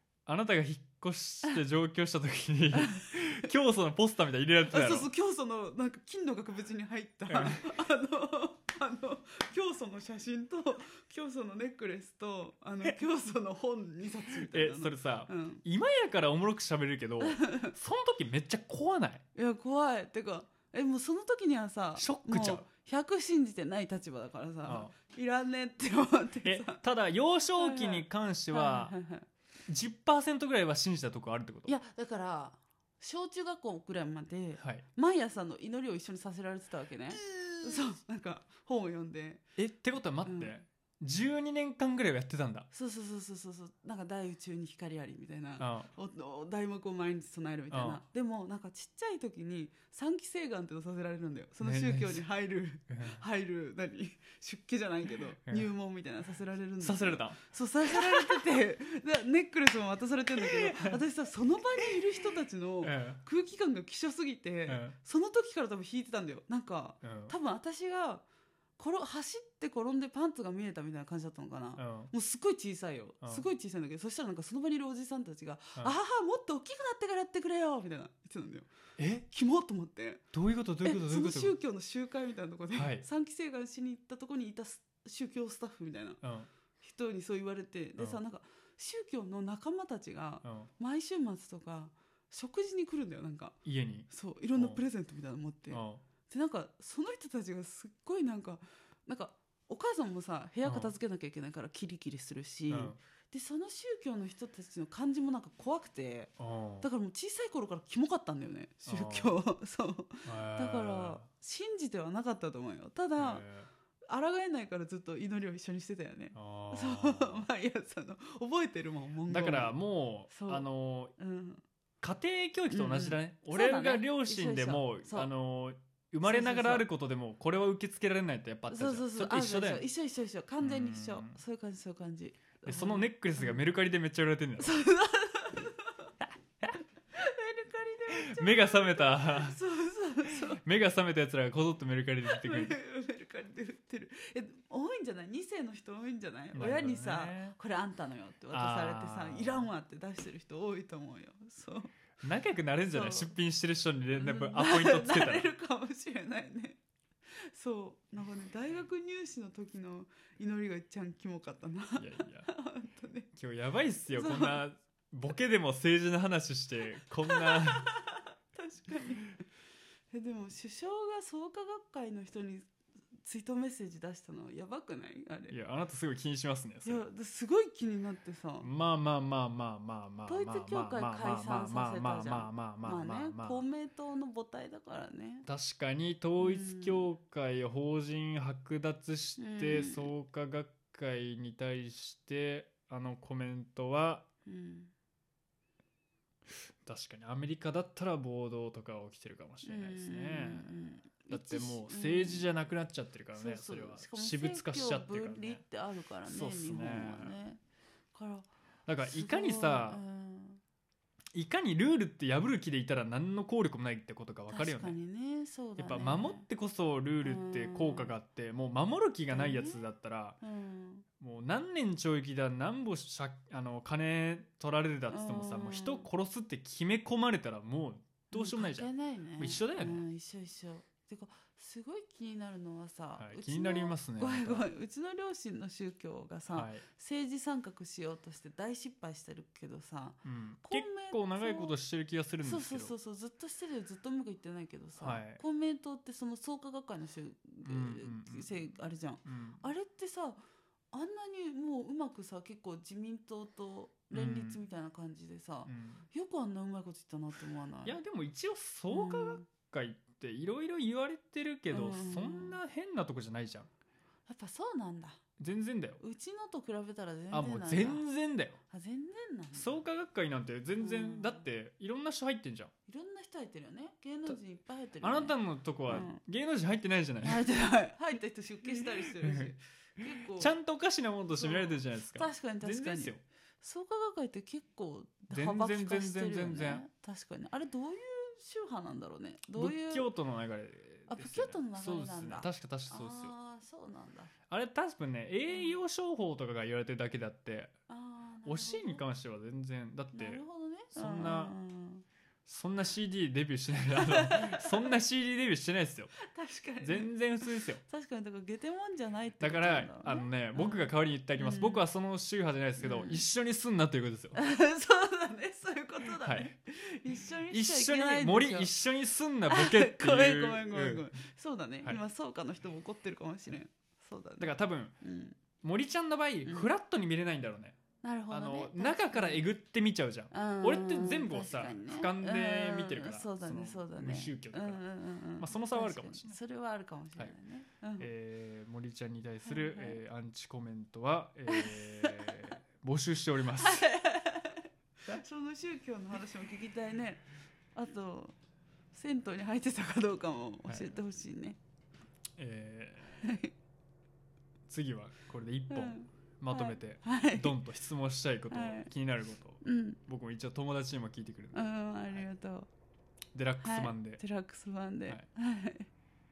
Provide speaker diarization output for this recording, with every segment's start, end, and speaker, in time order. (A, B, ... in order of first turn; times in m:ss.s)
0:00.2-0:05.1 A
0:02.7-0:03.4 B
0:04.7-0:15.6 B
0:07.3-0:07.6 A
0:14.5-0:19.2 A
0:17.2-0:17.7 B
0:19.3-0:26.8 B
0:22.0-0:22.6 A
0:24.6-0:24.9 A
0:26.4-0:28.9 A
0:27.6-0:29.3 B
0:29.7-0:31.7 A
0:31.6-0:39.4 B
0:34.6-0:34.8 A
0:39.6-0:42.7 A
0:40.2-0:40.5 B
0:42.7-1:08.2 B
0:45.6-0:45.9 A
0:47.7-0:48.0 A
0:51.6-0:52.2 A
0:52.9-0:53.2 A
0:56.8-0:57.4 A
1:00.4-1:01.0 A
1:02.8-1:03.2 A
1:04.6-1:05.0 A
1:07.0-1:07.3 A
1:08.8-1:18.7 B
1:11.8-1:12.1 A
1:19.0-1:19.2 A
1:19.3-1:20.2 B
1:20.3-1:21.6 A
1:20.8-1:26.2 B
1:22.7-1:23.0 A
1:26.2-1:26.5 A
1:26.8-1:33.6 B
1:30.4-1:30.7 A
1:33.6-1:34.8 A
1:34.1-1:53.4 B
1:35.7-1:36.0 A
1:40.6-1:40.9 A
1:42.7-1:43.0 A
1:46.4-1:46.9 A
1:48.8-1:49.4 A
1:50.2-1:51.3 A
1:53.2-1:53.7 A
1:54.1-1:59.8 B
1:56.3-1:57.5 A
1:59.3-2:01.1 A
2:00.3-2:00.6 B
2:01.2-2:01.6 B
2:02.0-2:09.8 A
2:02.7-2:05.3 B
2:06.2-2:06.9 B
2:08.7-2:13.6 B
2:10.6-2:11.4 A
2:12.6-2:14.8 A
2:14.6-2:16.1 B
2:16.7-2:20.6 B
2:18.1-2:19.6 A
2:20.3-2:22.8 A
2:22.2-2:31.9 B
2:26.5-2:27.6 A
2:28.5-2:29.7 A
2:32.2-2:35.5 A
2:32.9-2:33.4 B
2:34.1-2:43.3 B
2:42.0-2:42.5 A
2:43.3-2:48.0 A
2:44.1-2:44.6 B
2:47.2-2:49.4 B
2:50.1-2:55.5 B
2:55.5-2:57.0 A
2:56.8-2:58.7 B
2:58.6-3:03.6 A
3:00.3-3:05.5 B
3:05.4-3:14.3 A
3:06.4-3:07.1 B
3:09.4-3:10.1 B
3:14.4-3:14.9 B
3:16.8-3:20.7 A
3:19.6-3:22.5 B
3:21.3-3:25.6 A
3:23.3-3:27.6 B
3:26.2-3:27.3 A
3:28.1-3:28.5 B
3:28.8-3:30.0 A
3:29.1-3:30.6 B
3:31.3-3:35.0 A
3:34.5-3:36.4 B
3:35.8-3:40.4 A
3:37.2-3:38.1 B
3:39.3-3:39.8 B
3:40.4-3:41.0 B
3:41.2-3:50.0 A
3:45.1-3:46.1 B
3:48.3-4:01.7 B
3:53.2-3:54.6 A
3:56.5-3:56.8 A
4:00.2-4:02.9 A
4:02.4-4:10.4 B
4:05.0-4:05.4 A
4:07.6-4:08.5 A
4:09.2-4:09.6 A
4:10.9-4:18.0 B
4:14.1-4:14.6 A
4:15.6-4:16.0 A
4:17.8-4:23.7 A
4:18.9-4:19.4 B
4:21.7-4:22.6 B
4:24.2-4:25.2 B
4:25.4-4:26.0 A
4:26.0-4:28.0 B
4:27.3-4:28.6 A
4:28.7-4:29.8 B
4:29.5-4:32.7 A
4:30.8-4:31.4 B
4:32.9-4:35.4 B
4:35.0-4:37.5 A
4:35.9-4:36.2 B
4:37.2-4:40.5 B
4:38.8-4:43.2 A
4:41.3-4:50.0 B
4:45.3-4:46.8 A
4:49.5-4:53.3 A
4:51.1-4:54.3 B
4:54.5-4:57.7 A
4:55.5-4:55.8 B
4:57.9-4:59.0 B
4:58.4-5:01.5 A
5:00.1-5:02.0 B
5:02.4-5:06.1 A
5:03.9-5:05.0 B
5:06.2-5:07.1 B
5:06.8-5:07.8 A
5:07.8-5:11.8 B
5:09.4-5:14.4 A
5:12.8-5:13.2 B
5:14.3-5:18.7 B
5:16.2-5:16.5 A
5:17.5-5:21.0 A
5:19.5-5:25.4 B
5:24.4-5:24.9 A
5:25.6-5:27.8 A
5:28.0-5:29.5 B
5:28.3-5:34.8 A
5:30.3-5:38.1 B
5:35.4-5:36.4 A
5:38.0-5:43.9 A
5:39.4-5:40.0 B
5:41.5-5:42.5 B
5:43.6-5:47.2 B
5:47.7-5:48.3 B
5:48.9-5:51.6 B
5:50.7-5:51.0 A
5:52.4-5:53.2 A
5:53.2-5:53.5 B
5:54.7-6:02.2 A
5:55.7-5:57.6 B
5:58.5-5:58.9 B
5:59.6-6:00.0 B
6:01.5-6:02.7 B
6:03.3-6:04.2 A
6:03.6-6:05.9 B